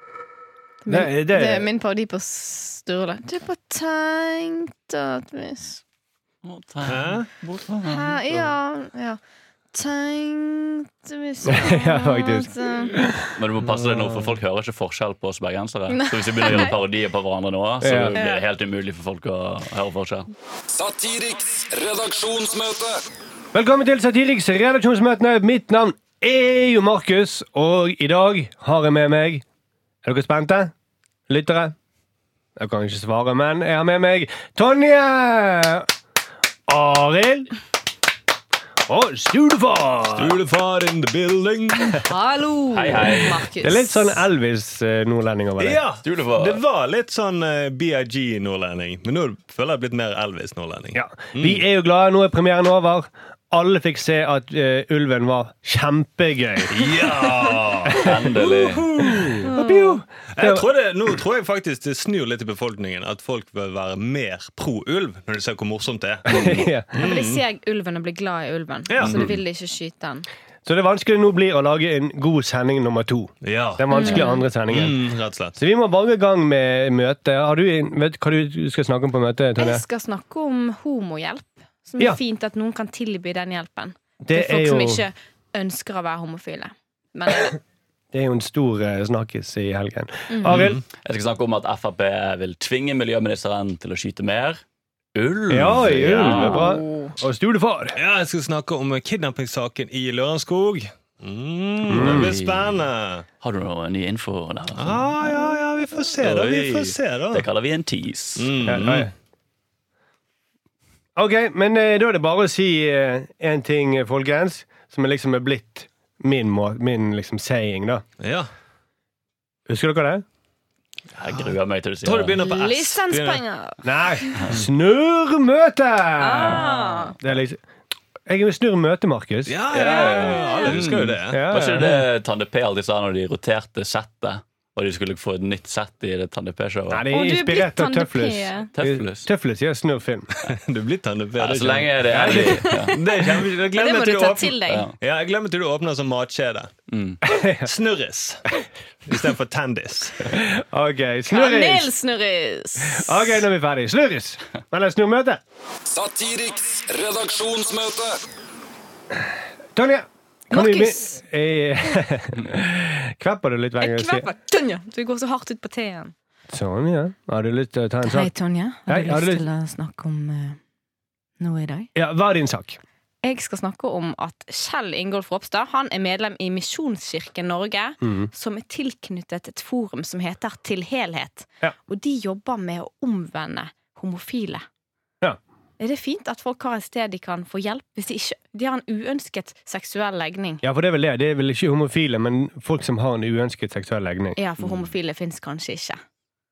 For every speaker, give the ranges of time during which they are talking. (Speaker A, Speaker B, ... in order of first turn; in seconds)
Speaker A: 0.8-5.8, 7.8-9.2, 9.7-13.1, 15.9-16.8, 18.1-18.4, 42.0-44.1, 59.4-60.0, 67.0-70.3, 73.9-74.4, 79.6-87.6, 90.3-90.6, 96.2-97.1, 122.3-124.4, 126.2-127.2, 129.8-130.8, 137.1-138.7, 142.3-144.9, 151.3-153.4, 160.5-161.2, 163.8-166.1, 168.0-170.6, 171.4-171.9, 173.2-184.6, 185.8-190.6, 194.3-196.0
Speaker B: 0.9-1.7, 11.4-13.3, 17.8-18.2, 23.5-29.4, 30.0-30.7, 31.3-31.7, 32.6-35.9, 36.7-37.5, 38.9-40.4, 43.6-45.8, 50.9-56.9, 57.9-58.2, 59.0-60.7, 66.3-67.1, 70.6-79.8, 84.2-85.0, 88.1-90.8, 95.5-98.0, 101.9-102.3, 108.6-109.1, 111.2-118.0, 119.7-120.2, 123.8-127.6, 128.2-129.6, 131.3-132.1, 136.9-140.3, 142.1-142.6, 147.2-147.7, 150.2-151.9, 152.8-155.4, 159.7-164.2, 166.5-168.3, 168.9-169.4, 171.9-172.8, 178.0-178.3, 190.6-194.4
Speaker C: 6.4-8.2, 13.3-20.3, 42.7-43.5, 46.0-46.6, 57.9-58.9, 66.3-66.6, 69.0-69.3, 91.0-94.6, 95.1-96.7, 101.8-102.7, 103.4-105.1, 106.2-108.5, 121.1-122.4, 129.7-137.1, 138.7-139.3, 141.4-142.9, 144.7-144.9, 146.9-147.2, 194.6-194.9
Speaker D: 6.8-7.3, 13.6-14.3, 40.1-42.1, 45.6-51.6, 56.7-59.5, 60.3-67.4, 68.9-69.3, 73.4-75.5, 90.5-90.8, 98.0-103.2, 104.7-107.5, 108.4-109.1, 118.2-118.5, 122.0-123.4, 129.4-131.4, 140.4-146.7, 147.6-148.5, 149.1-150.3
Speaker E: 20.7-23.0, 155.9-158.2